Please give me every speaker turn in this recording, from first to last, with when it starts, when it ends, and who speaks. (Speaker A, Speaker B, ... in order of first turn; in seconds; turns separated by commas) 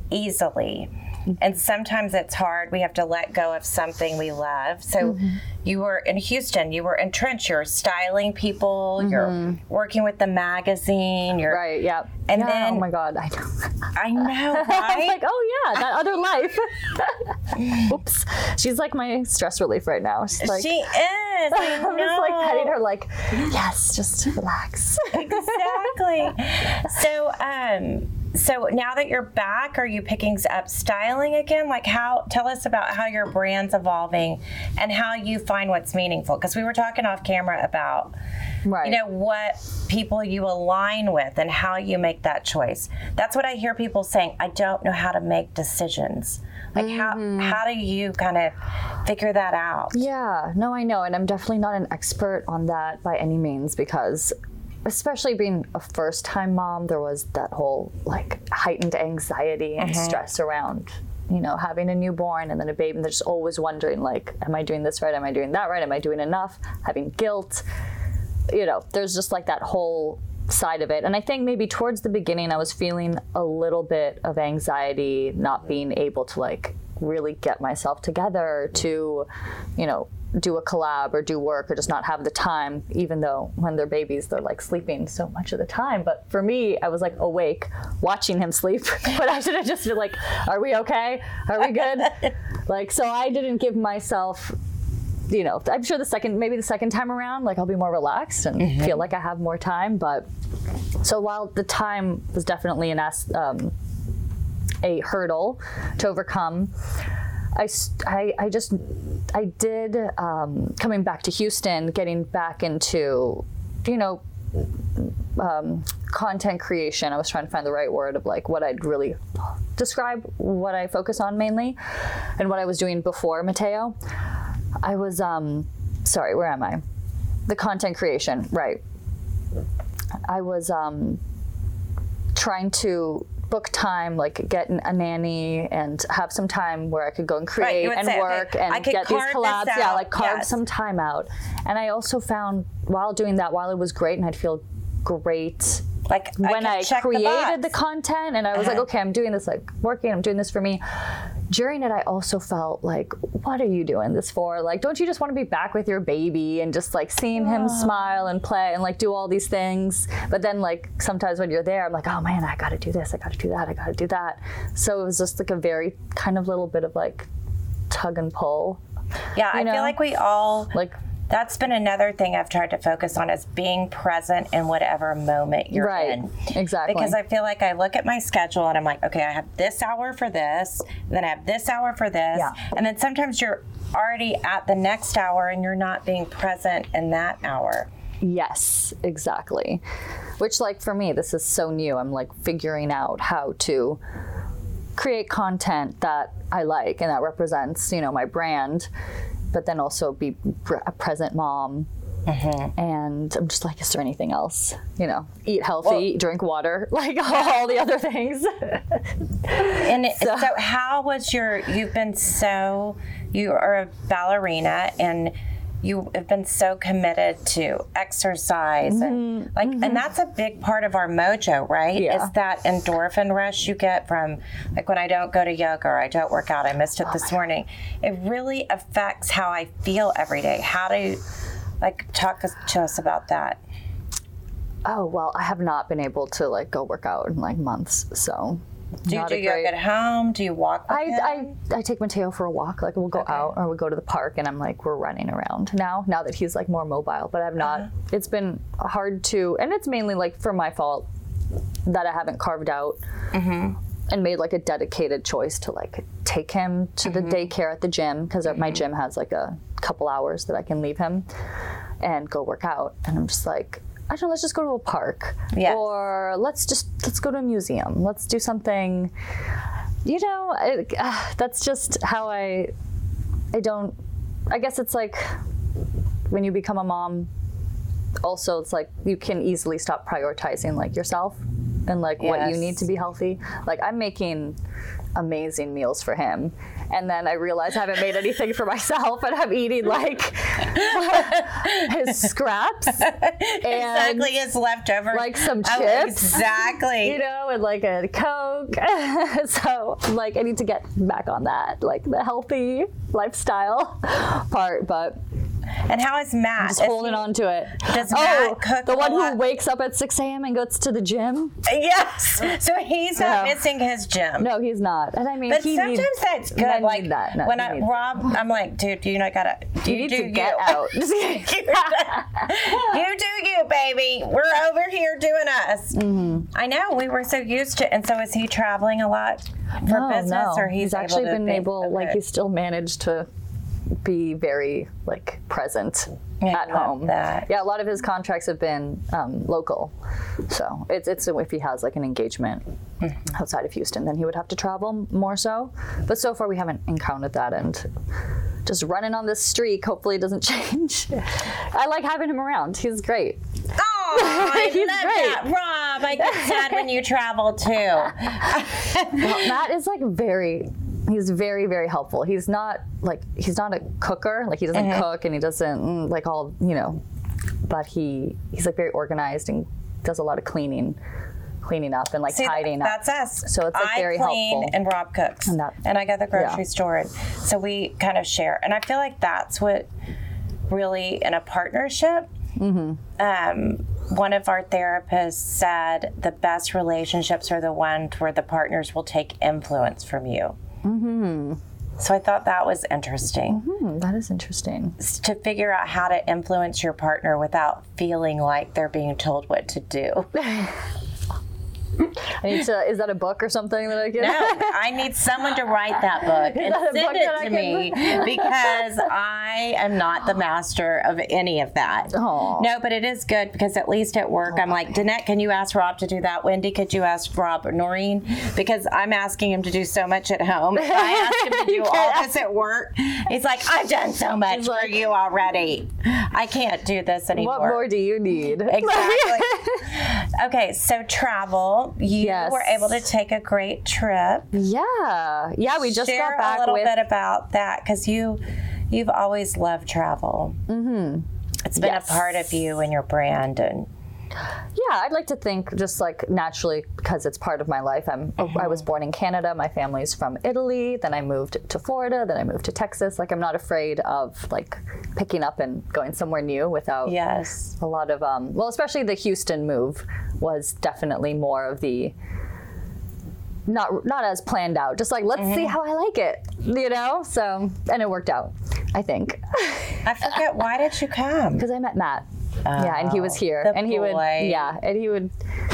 Speaker A: 0.1-11.6, Speaker B: 5.0-5.4, Speaker B: 9.0-9.6, Speaker B: 11.5-20.7, Speaker A: 12.3-12.9, Speaker A: 13.9-15.2, Speaker A: 20.4-22.7, Speaker B: 21.5-25.9, Speaker A: 25.1-38.1, Speaker B: 38.6-39.0, Speaker A: 38.8-50.0, Speaker B: 46.8-47.6, Speaker B: 49.9-54.3, Speaker B: 54.8-67.6, Speaker A: 59.8-60.2, Speaker B: 68.5-94.5, Speaker B: 95.3-100.3, Speaker A: 98.6-99.0, Speaker B: 101.0-103.7, Speaker B: 104.8-106.7, Speaker B: 107.5-119.2, Speaker B: 119.8-123.9, Speaker B: 124.8-126.8, Speaker B: 127.5-128.8, Speaker B: 130.3-131.2, Speaker B: 132.3-145.8, Speaker A: 137.6-140.5, Speaker A: 146.1-147.7, Speaker B: 146.4-167.3, Speaker A: 148.5-148.8, Speaker A: 157.4-157.9, Speaker B: 167.9-168.8, Speaker A: 169.3-170.7, Speaker B: 169.5-170.0, Speaker A: 171.3-187.9, Speaker B: 175.7-177.2, Speaker B: 182.3-182.6, Speaker B: 188.2-189.8, Speaker B: 190.4-194.0, Speaker B: 195.0-198.9, Speaker B: 199.5-201.9, Speaker A: 202.2-202.7, Speaker B: 202.8-210.5, Speaker A: 209.6-231.2, Speaker B: 218.8-220.0, Speaker B: 221.9-222.3, Speaker A: 231.8-233.6, Speaker B: 234.8-239.7, Speaker A: 239.1-241.5, Speaker B: 240.9-251.1, Speaker B: 251.8-253.0, Speaker A: 253.3-253.8, Speaker B: 254.1-261.2, Speaker A: 257.1-257.4, Speaker B: 262.0-269.1, Speaker A: 265.5-265.8, Speaker B: 270.0-272.7, Speaker B: 273.5-273.9, Speaker B: 274.5-275.2, Speaker B: 276.3-277.3, Speaker B: 278.2-284.5, Speaker A: 282.2-282.8, Speaker B: 285.1-294.3, Speaker A: 291.1-292.0, Speaker A: 293.0-297.2, Speaker B: 295.1-305.2, Speaker A: 305.9-307.3, Speaker B: 306.6-311.6, Speaker A: 307.8-309.4, Speaker A: 311.6-314.5, Speaker B: 313.2-313.6, Speaker B: 314.4-317.9, Speaker A: 315.5-332.2, Speaker B: 319.8-322.6, Speaker B: 325.9-326.5, Speaker B: 329.8-333.3, Speaker B: 334.0-339.9, Speaker A: 336.4-337.5, Speaker B: 340.5-342.6, Speaker B: 343.2-347.9, Speaker B: 348.6-353.4, Speaker A: 353.7-359.5, Speaker B: 354.1-355.4, Speaker B: 356.2-356.8, Speaker B: 359.1-367.0, Speaker A: 364.7-365.1, Speaker B: 367.7-371.0, Speaker B: 371.6-374.8, Speaker A: 372.3-379.9, Speaker B: 375.4-375.8, Speaker B: 376.3-376.6, Speaker A: 380.7-382.3, Speaker B: 382.6-383.0, Speaker A: 383.2-390.6, Speaker B: 390.8-391.6, Speaker A: 392.0-393.6, Speaker B: 393.5-395.0, Speaker A: 395.0-400.3, Speaker B: 400.3-400.8, Speaker B: 402.2-404.8, Speaker A: 404.1-427.9, Speaker B: 406.2-408.8, Speaker B: 412.1-412.7, Speaker B: 420.8-422.3, Speaker B: 424.5-425.0, Speaker B: 427.3-430.0, Speaker A: 428.6-434.5, Speaker B: 432.2-432.9, Speaker B: 434.5-436.9, Speaker A: 435.7-440.6, Speaker B: 440.7-441.2, Speaker A: 441.6-443.9, Speaker B: 441.8-442.3, Speaker B: 444.7-457.1, Speaker A: 457.0-457.8, Speaker B: 457.8-462.1, Speaker B: 463.7-470.1, Speaker A: 465.4-465.8, Speaker A: 470.0-471.6, Speaker B: 471.6-475.3, Speaker A: 472.6-474.7